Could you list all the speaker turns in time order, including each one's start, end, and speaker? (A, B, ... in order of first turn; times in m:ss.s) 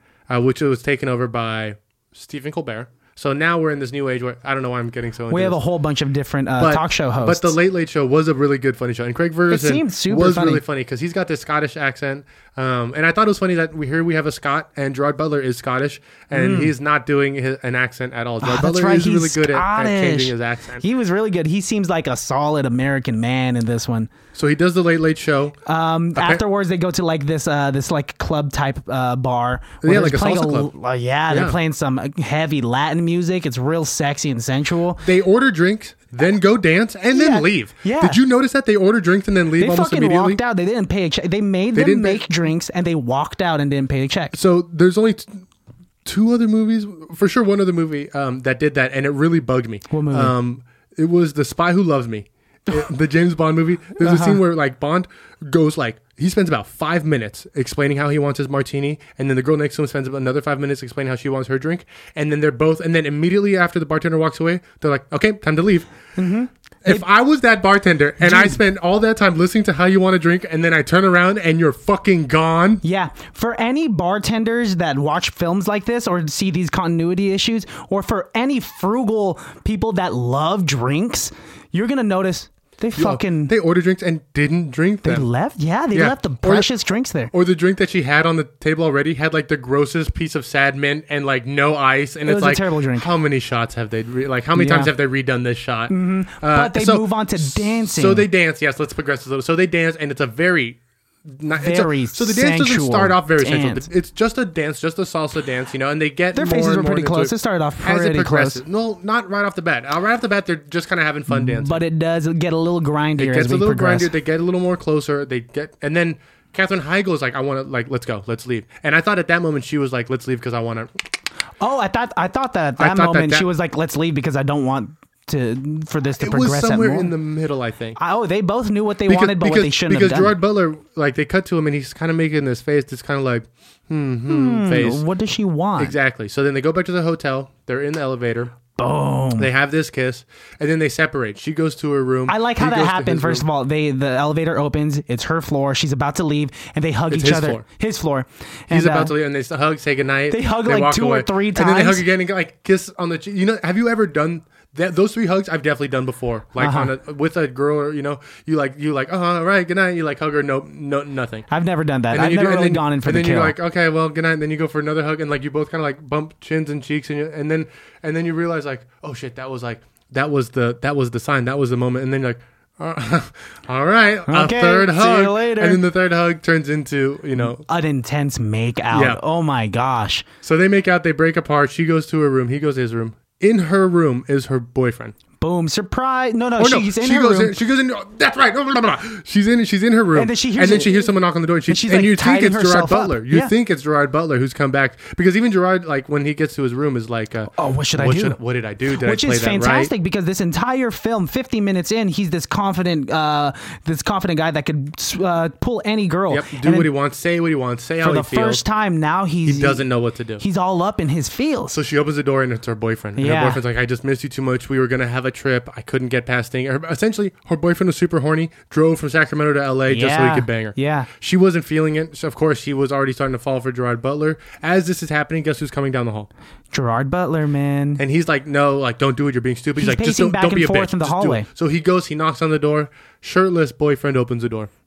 0:00.3-0:05.6 A
0:05.3-0:07.6 B
0:06.6-0:20.8 A
0:09.5-0:10.6 B
0:16.3-0:16.7 B
0:18.4-0:24.1 B
0:24.3-0:25.6 A
0:25.6-0:35.0 B
0:26.2-0:26.4 A
0:29.8-0:30.7 A
0:31.3-0:31.6 A
0:35.0-0:40.4 A
0:37.1-0:38.2 B
0:39.6-0:44.4 B
0:41.7-0:42.3 A
0:44.3-0:45.4 A
0:46.0-1:05.9 A
0:49.9-0:50.3 B
0:54.0-0:54.4 B
1:06.2-1:07.0 B
1:06.8-1:12.8 A
1:08.2-1:08.6 B
1:12.8-1:23.5 B
1:23.0-1:25.2 A
1:25.0-1:27.3 B
1:25.9-1:26.7 A
1:27.3-1:51.8 A
1:32.2-1:33.1 B
1:34.6-1:34.9 B
1:35.9-1:38.3 B
1:41.6-1:43.9 B
1:46.3-1:48.6 B
1:51.3-1:54.1 B
1:53.2-2:01.0 A
2:01.6-2:07.1 B
2:02.8-2:03.5 A
2:06.2-2:08.0 A
2:08.0-2:10.3 B
2:09.1-2:15.0 A
2:14.3-2:15.9 B
2:15.8-2:18.5 A
2:18.8-2:19.5 B
2:19.4-2:23.4 A
2:22.3-2:29.1 B
2:27.1-2:27.6 A
2:28.7-2:41.4 A
2:30.3-2:32.0 B
2:36.6-2:36.9 B
2:41.5-2:43.5 B
2:42.1-2:57.6 A
2:54.3-2:55.8 B
2:57.6-3:00.2 B
2:58.9-2:59.2 A
3:00.4-3:05.1 A
3:05.4-3:07.5 B
3:06.6-3:19.9 A
3:10.1-3:11.1 B
3:11.7-3:13.5 B
3:17.5-3:18.4 B
3:19.0-3:26.9 B
3:26.3-3:28.6 A
3:28.0-3:29.8 B
3:29.4-3:30.4 A
3:30.4-3:31.8 B
3:31.7-3:46.3 A
3:33.2-3:33.6 B
3:39.9-3:41.1 B
3:46.7-3:48.0 B
3:48.0-3:54.7 A
3:49.8-3:51.4 B